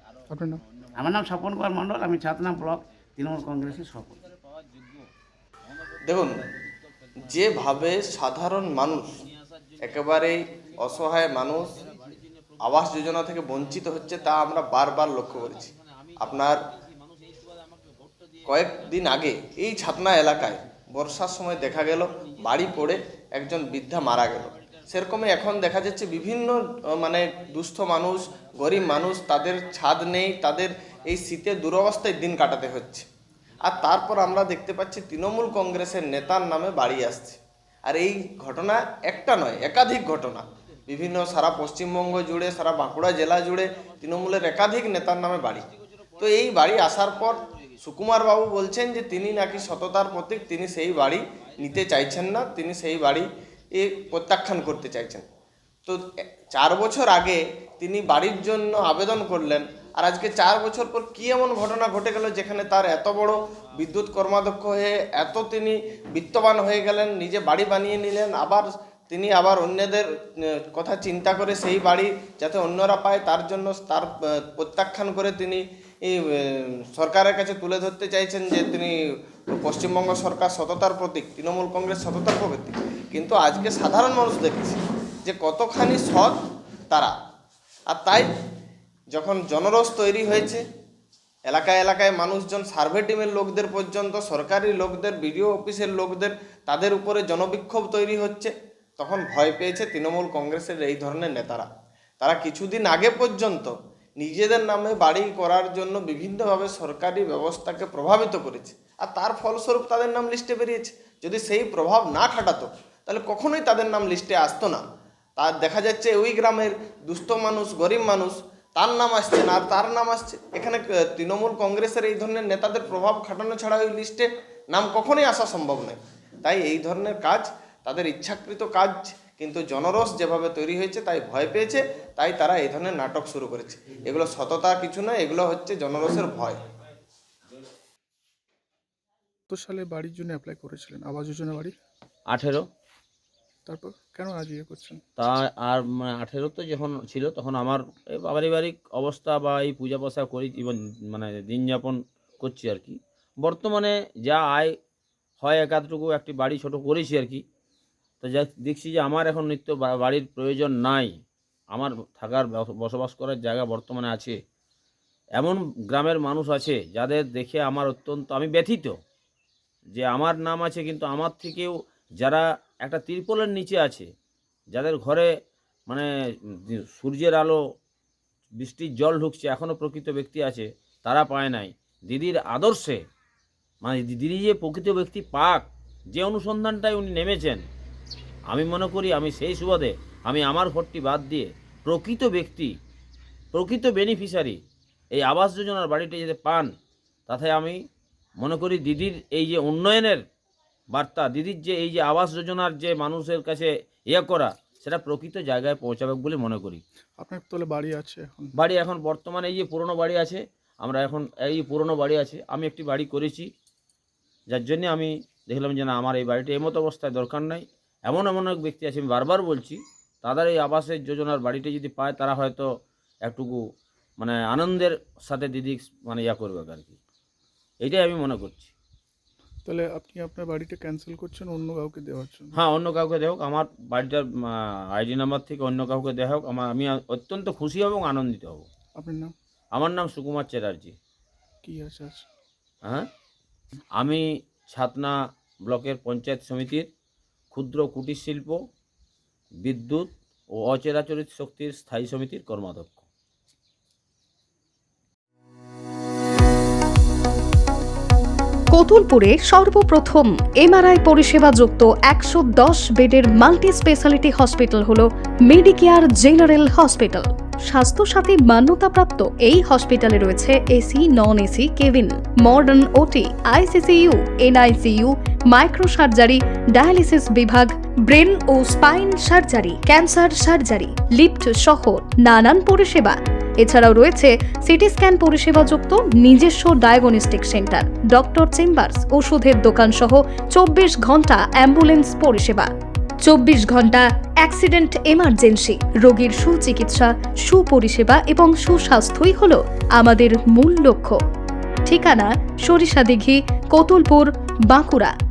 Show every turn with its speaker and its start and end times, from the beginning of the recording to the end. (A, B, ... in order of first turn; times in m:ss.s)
0:00.3-0:00.6 A
0:01.0-0:04.2 B
0:06.1-0:06.5 C
0:07.2-0:09.2 C
0:09.3-0:09.9 D
0:09.8-0:11.8 C
0:11.8-0:13.2 D
0:12.6-0:16.6 C
0:15.3-0:16.8 D
0:17.3-0:18.4 D
0:18.5-0:33.1 C
0:33.6-0:45.7 C
0:46.2-0:55.2 C
0:55.9-1:18.9 C
1:19.5-1:26.4 C
1:27.9-1:28.3 C
1:29.1-1:30.6 C
1:31.5-1:41.7 C
1:42.2-1:54.8 C
1:55.4-2:16.6 C
2:19.5-2:21.8 A
2:22.3-2:22.7 D
2:23.7-2:25.0 A
2:25.2-2:34.8 D
2:35.4-2:37.4 D
2:38.2-2:41.2 D
2:41.7-2:44.4 D
2:45.4-2:49.0 D
2:49.9-2:54.1 D
2:54.7-2:55.3 D
2:56.7-2:57.6 D
2:58.6-3:03.0 D
3:03.8-3:07.7 D
3:08.5-3:12.7 D
3:13.5-3:14.6 D
3:15.1-3:16.7 D
3:17.3-3:17.8 D
3:18.4-3:20.2 D
3:20.9-3:26.8 D
3:27.2-3:28.5 A
3:28.6-3:33.5 D
3:34.5-3:42.7 D
3:43.2-3:43.6 D
3:44.2-3:47.0 D
3:47.8-3:48.7 D
3:49.6-3:52.6 A
3:52.6-3:58.7 D
3:59.0-3:59.3 A
3:59.8-4:01.0 D
4:01.6-4:02.3 A
4:04.0-4:05.1 D
4:05.7-4:06.9 D
4:07.5-4:08.6 D
4:09.6-4:13.0 D
4:18.7-4:52.7 E
4:53.2-5:01.2 E
5:01.9-5:05.1 E